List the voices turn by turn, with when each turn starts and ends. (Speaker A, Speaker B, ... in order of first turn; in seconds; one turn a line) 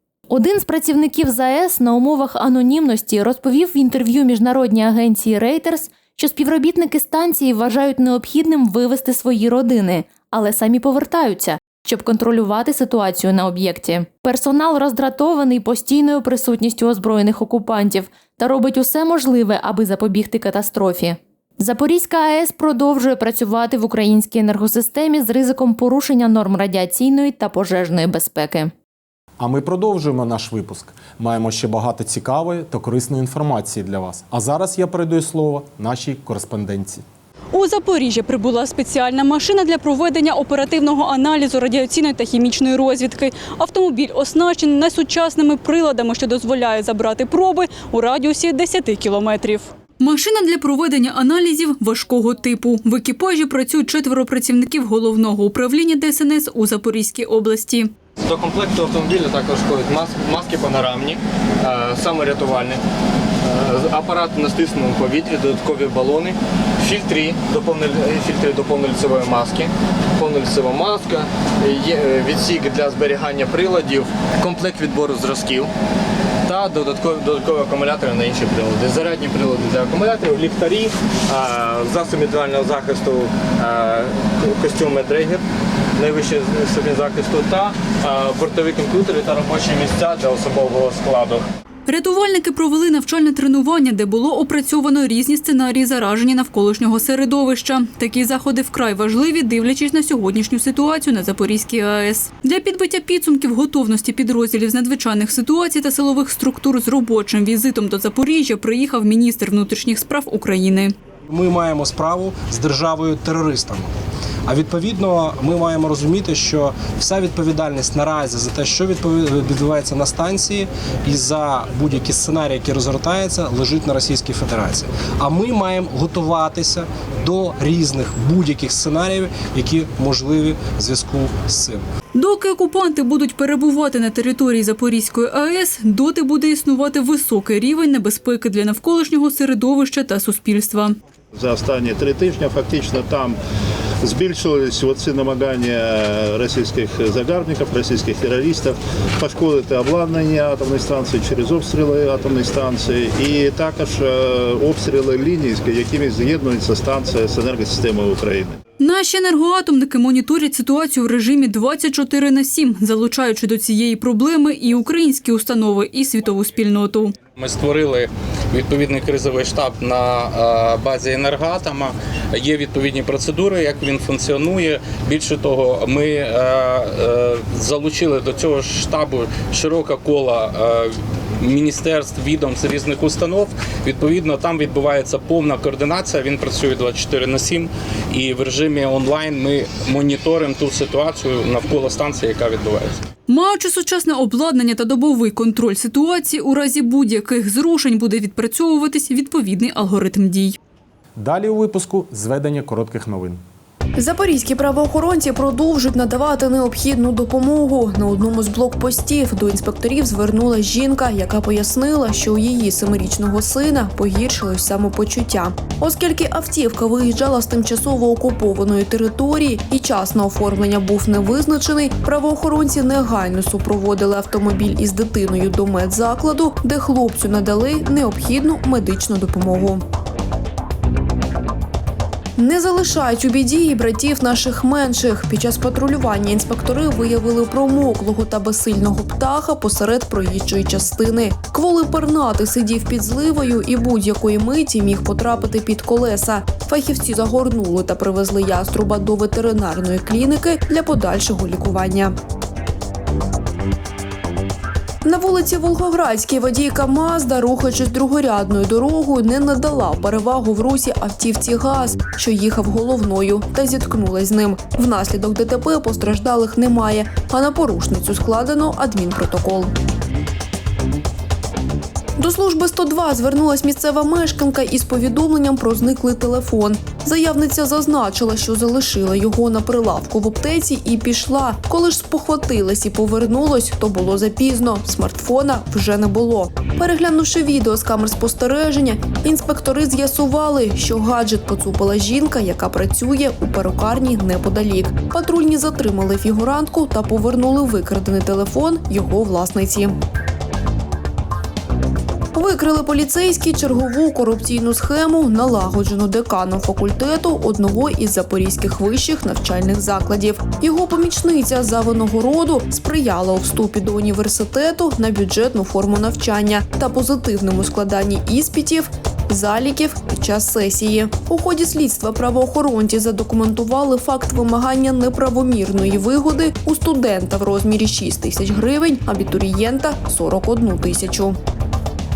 Speaker A: 0.3-28.7
Speaker B: 29.4-37.0
Speaker C: 37.5-57.9
Speaker D: 58.2-62.8
Speaker D: 63.5-75.7
Speaker D: 76.5-85.4
Speaker D: 86.0-91.4
Speaker C: 91.9-111.0
Speaker E: 111.3-113.9
Speaker E: 114.5-131.8
Speaker C: 132.1-141.0
Speaker F: 141.3-143.4
Speaker F: 144.0-158.6
Speaker C: 158.8-167.2
Speaker G: 167.3-193.0
Speaker C: 193.3-200.6
Speaker B: 201.2-203.4
Speaker H: 204.0-229.8
Speaker H: 232.4-252.2
Speaker H: 255.0-269.7
Speaker H: 272.2-300.0
Speaker H: 302.3-331.4